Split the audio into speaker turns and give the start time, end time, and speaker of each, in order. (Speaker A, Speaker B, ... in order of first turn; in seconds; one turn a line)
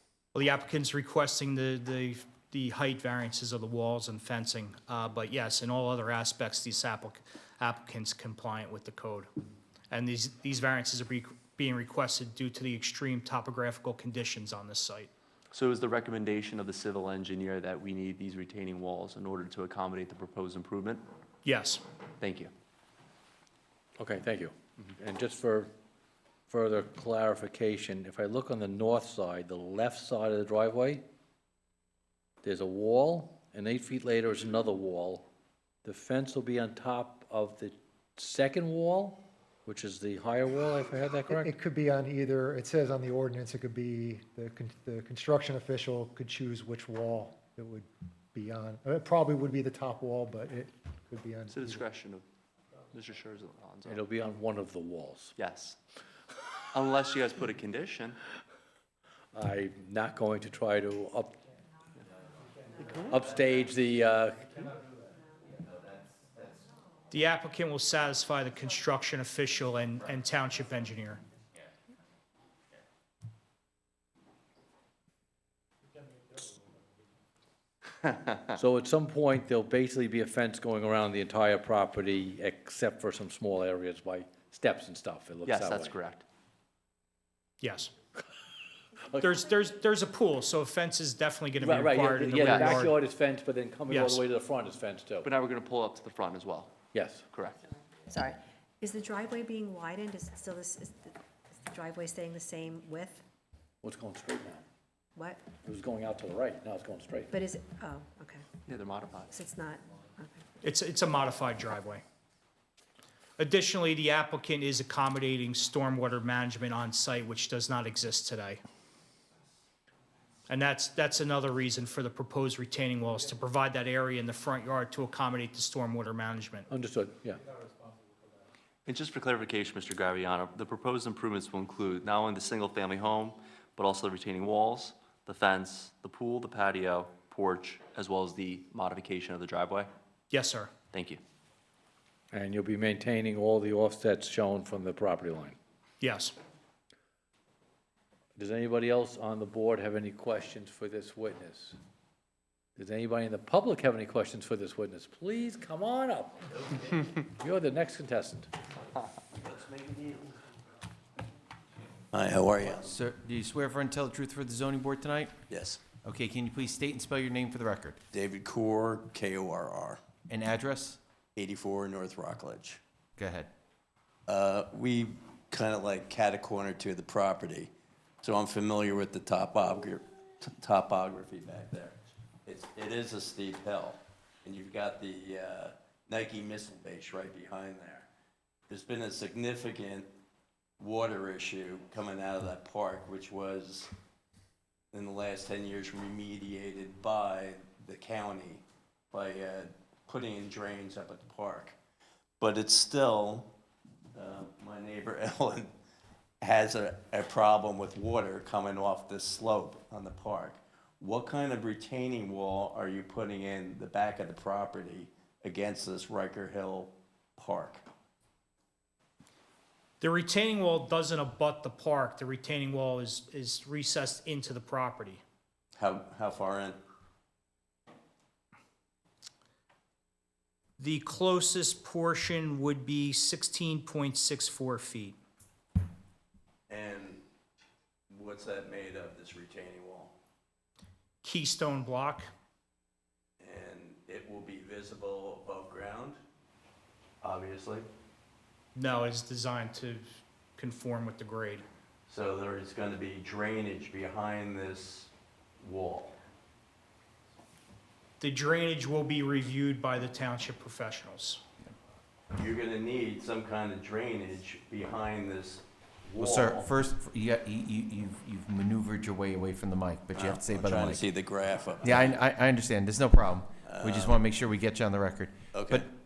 Speaker A: 0.3-9.3
Speaker A: 9.9-15.1
Speaker B: 15.5-21.0
Speaker A: 21.4-21.8
Speaker B: 22.2-22.5
Speaker C: 24.0-25.7
Speaker C: 26.5-31.0
Speaker C: 32.4-35.2
Speaker C: 35.8-41.5
Speaker D: 41.3-51.9
Speaker B: 51.5-52.2
Speaker B: 52.9-54.0
Speaker C: 53.9-55.3
Speaker B: 55.4-55.8
Speaker B: 56.7-58.2
Speaker C: 59.3-61.4
Speaker C: 63.0-64.8
Speaker A: 67.1-71.2
Speaker C: 78.5-86.0
Speaker B: 85.4-86.2
Speaker A: 87.6-87.9
Speaker A: 89.2-92.9
Speaker C: 91.6-95.3
Speaker B: 92.4-92.9
Speaker A: 93.9-94.2
Speaker B: 95.2-96.7
Speaker C: 96.9-97.3
Speaker B: 97.3-97.6
Speaker E: 98.1-103.2
Speaker C: 103.8-104.6
Speaker E: 105.2-105.5
Speaker C: 105.6-107.3
Speaker E: 107.3-108.5
Speaker B: 108.7-109.3
Speaker E: 109.3-110.5
Speaker A: 110.6-112.0
Speaker A: 113.4-118.6
Speaker A: 120.5-126.7
Speaker C: 126.7-127.5
Speaker B: 128.9-139.9
Speaker A: 140.3-140.7
Speaker B: 140.9-141.2
Speaker C: 142.3-145.6
Speaker A: 146.0-146.3
Speaker C: 148.4-151.8
Speaker C: 152.8-156.5
Speaker C: 157.3-158.5
Speaker F: 162.1-162.6
Speaker G: 162.7-165.3
Speaker F: 165.5-165.8
Speaker G: 165.9-168.0
Speaker F: 168.1-170.0
Speaker G: 170.3-171.0
Speaker F: 171.4-172.8
Speaker G: 173.2-173.5
Speaker F: 174.3-177.7
Speaker F: 178.2-181.9
Speaker F: 182.5-188.1
Speaker F: 188.7-190.1
Speaker F: 190.8-193.9
Speaker F: 194.9-201.8
Speaker F: 202.4-203.5
Speaker F: 204.2-205.7
Speaker F: 206.4-215.1
Speaker F: 215.6-217.8
Speaker A: 220.0-225.2
Speaker F: 225.8-226.4
Speaker A: 230.8-235.2
Speaker F: 236.8-237.2
Speaker F: 238.1-240.0
Speaker A: 241.2-242.3
Speaker F: 243.4-246.2
Speaker F: 247.2-247.7
Speaker A: 248.8-251.7
Speaker F: 252.1-255.1
Speaker F: 255.7-256.1
Speaker A: 258.2-261.4
Speaker F: 262.4-265.1
Speaker G: 266.2-271.1
Speaker F: 271.0-271.8
Speaker G: 271.8-275.9